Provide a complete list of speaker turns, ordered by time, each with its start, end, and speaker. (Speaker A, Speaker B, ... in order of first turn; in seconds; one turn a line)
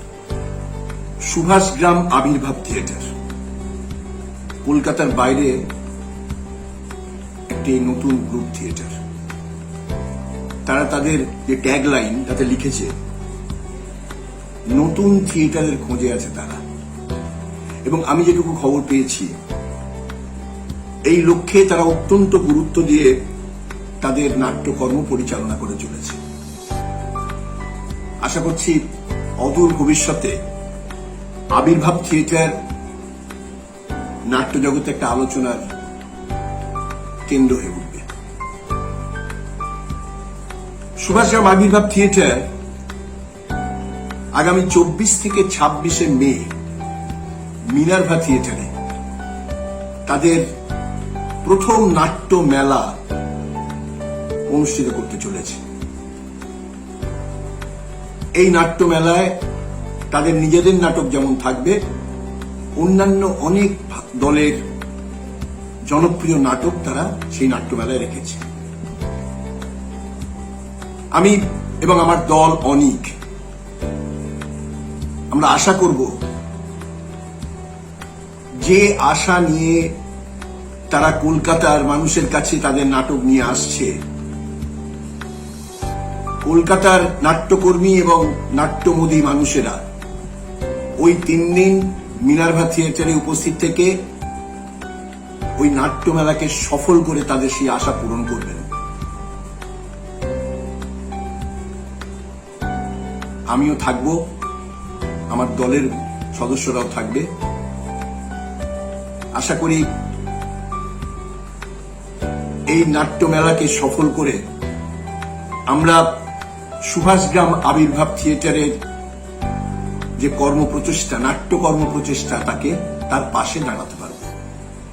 Speaker A: 1.2-3.1
Speaker A: 4.7-5.6
Speaker A: 7.5-8.9
Speaker A: 10.7-12.9
Speaker A: 14.7-16.6
Speaker A: 17.9-19.3
Speaker A: 21.1-23.1
Speaker A: 24.0-26.2
Speaker A: 28.2-28.8
Speaker A: 29.4-30.4
Speaker A: 31.5-32.5
Speaker A: 34.3-35.6
Speaker A: 37.3-38.1
Speaker A: 41.0-42.5
Speaker A: 44.4-46.5
Speaker A: 47.7-48.7
Speaker A: 50.1-50.5
Speaker A: 51.4-53.0
Speaker A: 54.5-55.6
Speaker A: 58.4-59.4
Speaker A: 60.1-61.8
Speaker A: 62.8-64.6
Speaker A: 65.9-68.4
Speaker A: 71.2-73.1
Speaker A: 75.3-76.1
Speaker A: 78.6-79.9
Speaker A: 80.9-84.0
Speaker A: 86.4-89.8
Speaker A: 91.0-93.9
Speaker A: 95.6-98.7
Speaker A: 103.5-104.2
Speaker A: 105.3-107.3
Speaker A: 109.3-109.8
Speaker A: 112.7-114.4
Speaker A: 115.7-116.2
Speaker A: 116.9-118.7
Speaker A: 120.2-124.3